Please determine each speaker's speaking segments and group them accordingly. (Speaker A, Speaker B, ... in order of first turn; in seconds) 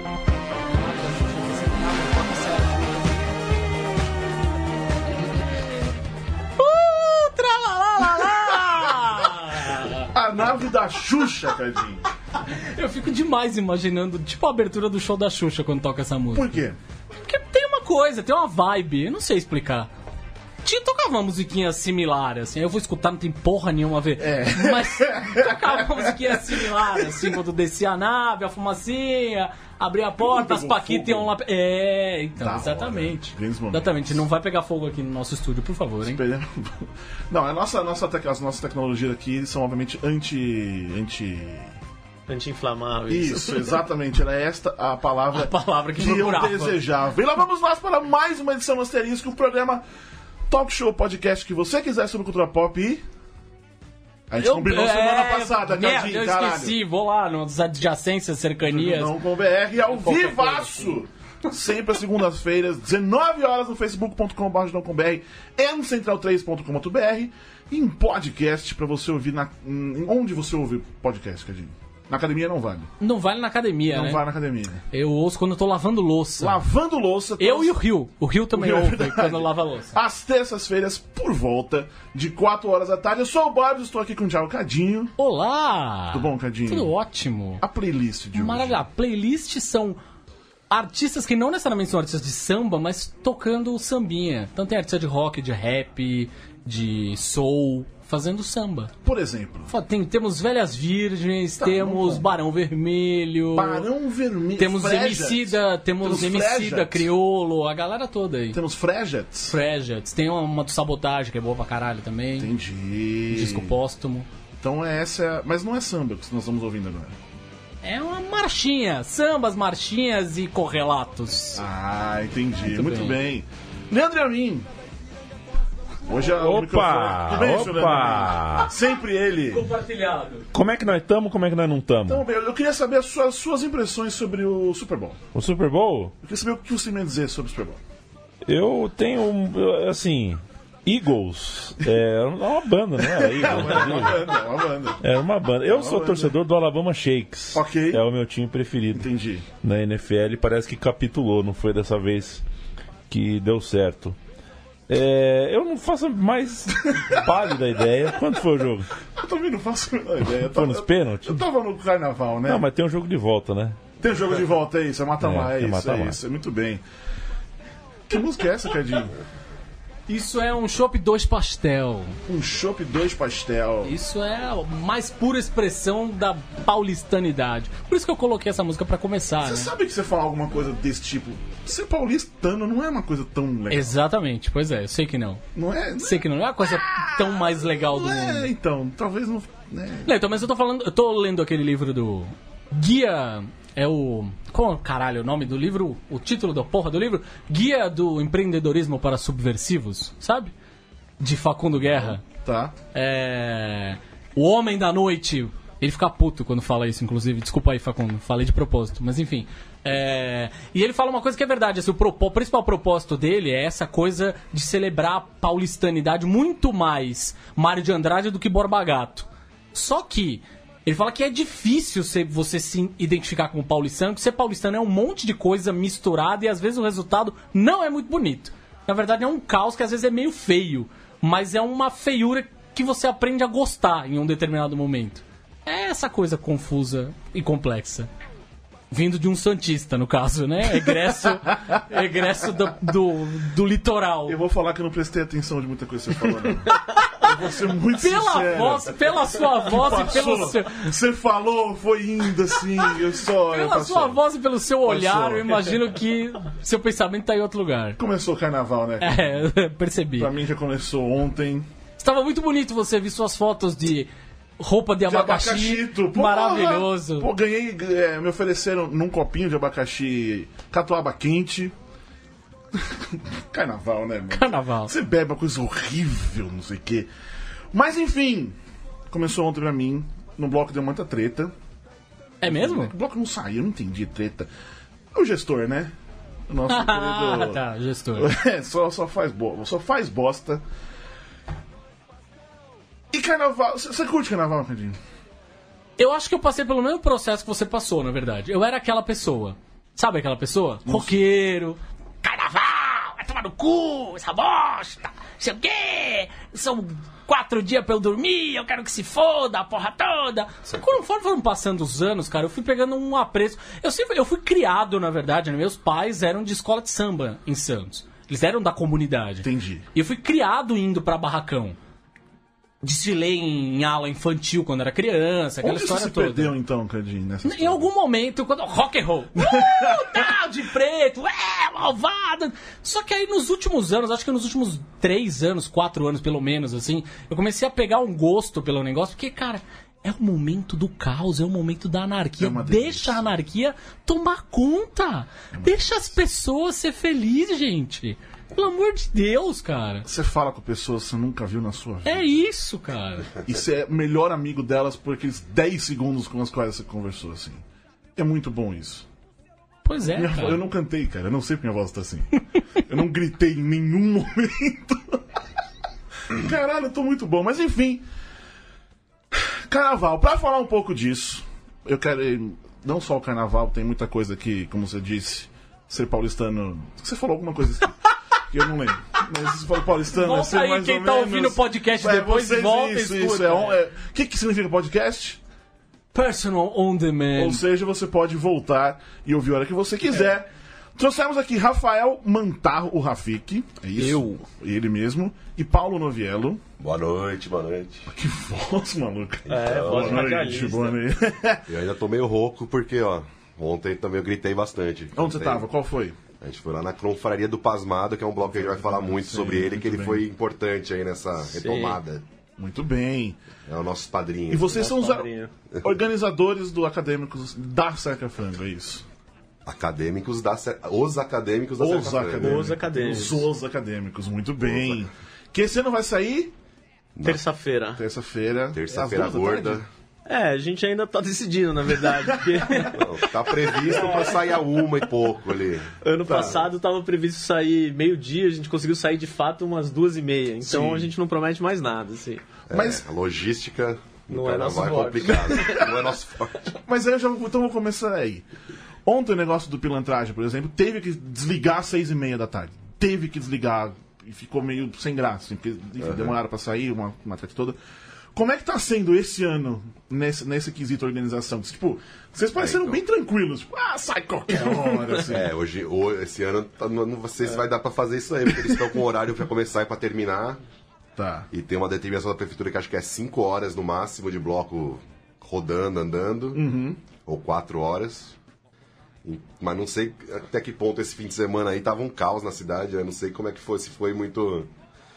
Speaker A: 0.5-3.2, 5.2-5.5, 6.6-10.1, 12.3-16.6, 17.2-19.9, 20.6-36.2, 45.3-46.8, 54.4-59.1, 59.9-61.0, 73.0-74.2, 74.9-76.6, 77.4-80.0, 85.2-87.6, 88.3-90.0, 90.7-98.9, 99.7-103.9, 104.6-108.6, 109.5-112.5, 113.3-114.3, 117.8-121.6, 122.6-123.2, 129.5-130.5, 170.1-172.2, 173.8-179.7, 183.7-185.4, 186.0-188.5, 190.1-200.5, 201.2-202.2, 202.9-238.1, 238.9-244.4, 247.9-250.9, 253.4-258.0, 259.0-260.3, 262.0-267.3, 274.3-274.9, 282.4-282.9, 286.7-288.3, 296.0-321.8, 322.8-326.5, 327.4-350.1, 352.1-353.3, 359.9-360.6, 380.1-383.8, 386.1-387.6
Speaker B: 10.1-12.0, 16.3-16.8, 24.2-25.8, 30.2-31.3, 32.4-34.2, 36.0-41.8, 43.1-49.8, 50.5-53.0, 54.3-56.8, 58.6-72.9, 73.9-74.8, 76.4-77.8, 78.5-85.1, 86.1-86.9, 87.6-88.8, 99.0-99.7, 101.6-102.3, 103.5-107.1, 108.5-109.6, 112.4-113.8, 114.6-117.2, 121.6-124.7, 126.1-129.7, 132.1-135.2, 136.2-137.8, 143.0-145.0, 145.7-146.3, 147.5-148.1, 148.9-149.5, 159.2-162.7, 164.0-166.8, 168.1-169.2, 172.3-174.0, 179.4-184.0, 185.6-190.1, 201.9-202.8, 244.3-254.2, 254.8-255.8, 258.0-259.3, 260.2-261.7, 265.1-271.8, 272.7-277.1, 277.7-278.6, 279.1-281.5, 282.5-284.5, 285.1-285.9, 286.5-287.6, 288.1-290.6, 293.1-295.0, 300.9-301.2, 319.4-319.9, 325.6-327.9, 329.4-330.2, 342.4-343.2, 345.5-346.2, 350.1-352.3, 353.4-357.6, 358.2-359.1, 360.1-365.2, 366.3-368.0, 369.3-378.0, 378.5-385.4, 387.4-396.6, 398.1-401.7, 405.2-406.2, 408.5-410.2, 412.6-413.4, 414.5-415.3, 415.8-419.1, 421.8-426.5, 428.0-429.8, 432.3-433.0, 436.3-436.6, 440.6-441.1, 442.7-443.0, 445.3-445.9, 446.9-448.4, 449.1-457.8, 458.3-465.5, 471.2-471.5, 476.5-477.0
Speaker C: 42.3-43.8, 394.0-394.4, 399.5-401.0, 411.5-412.0, 414.7-415.5, 422.4-423.5, 427.2-428.0, 430.3-433.0, 433.7-434.5, 436.0-442.4, 444.3-445.9, 464.5-465.3
Speaker D: 126.3-128.7, 130.5-132.2, 135.3-136.1, 138.5-144.4, 145.0-149.1, 149.6-152.4, 153.1-154.2, 154.9-158.9, 160.4-161.4, 162.5-163.8, 165.2-166.2
Speaker E: 396.8-398.1, 399.6-400.3, 401.7-405.7, 406.4-412.2, 413.7-414.8, 419.7-422.8, 424.6-425.1, 427.2-427.4, 428.7-429.9, 432.9-436.6, 442.7-446.7, 456.0-456.4, 462.6-463.0, 465.3-470.6, 471.5-478.4, 479.2-484.7